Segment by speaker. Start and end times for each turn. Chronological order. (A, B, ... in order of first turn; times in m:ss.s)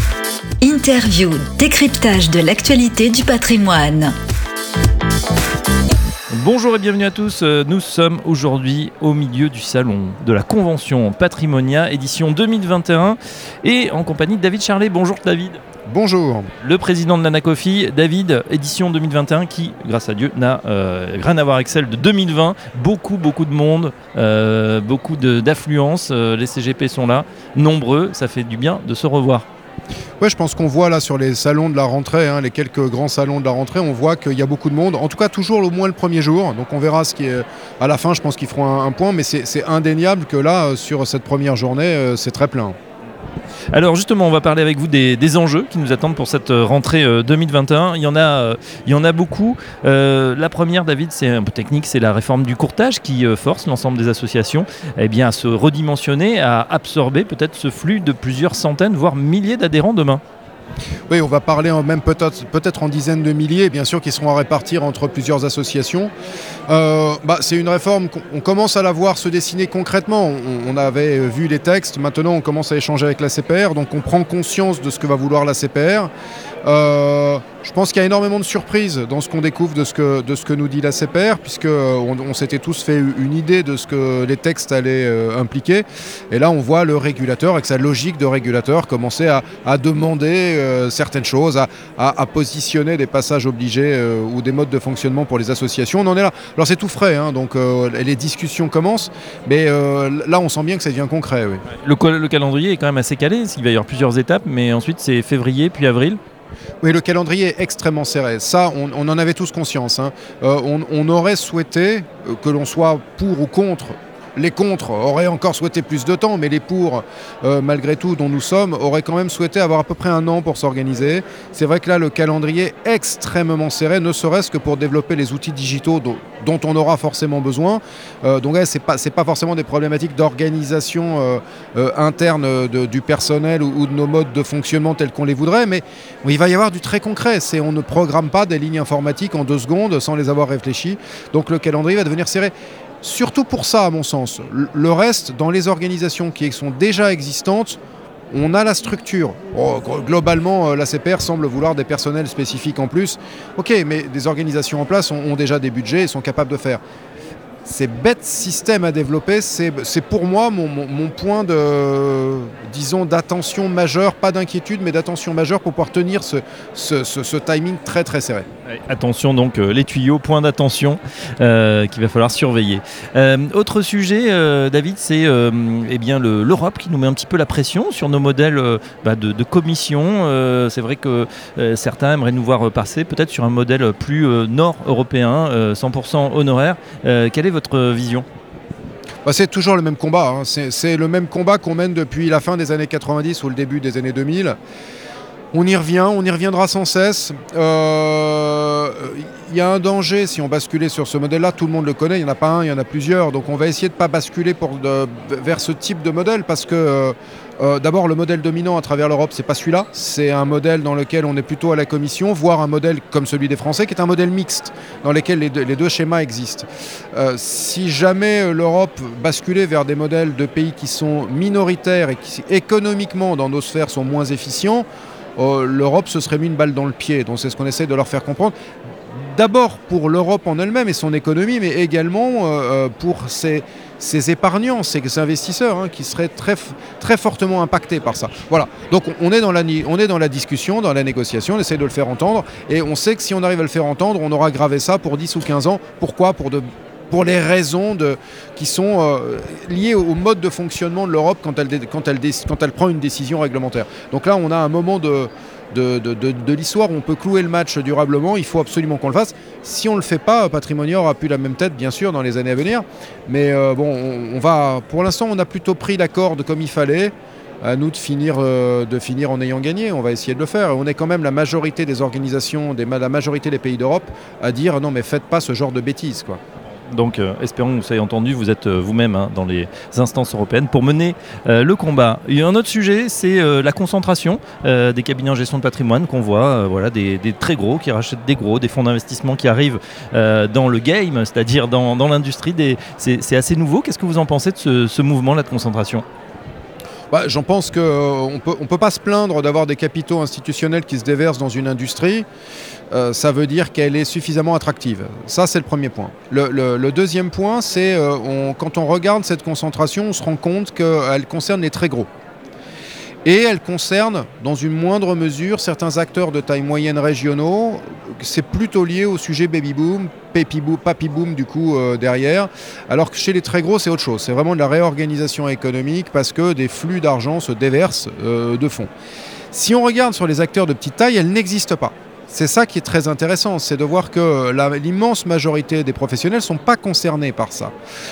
0:00.6-0:04.1 A
0:06.3-0:15.6 B
0:15.9-0:16.5 C
0:16.6-0:29.5 B
0:30.2-0:42.8 C
0:43.7-1:00.2 B
1:01.1-1:06.1 C
1:06.7-1:16.1 C
1:16.6-1:41.6 C
1:41.8-1:46.2 B
1:46.8-2:27.8 C
2:28.3-2:36.8 C
2:37.6-2:48.5 C
2:48.7-3:08.3 B
3:09.2-3:14.6 C
3:15.5-3:44.8 C
3:45.4-3:48.6 C
3:49.1-4:36.4 C
4:36.9-4:56.0 B
4:57.1-5:02.3 C
5:02.9-5:12.1 C
5:13.2-5:28.9 C
5:29.5-5:37.7 C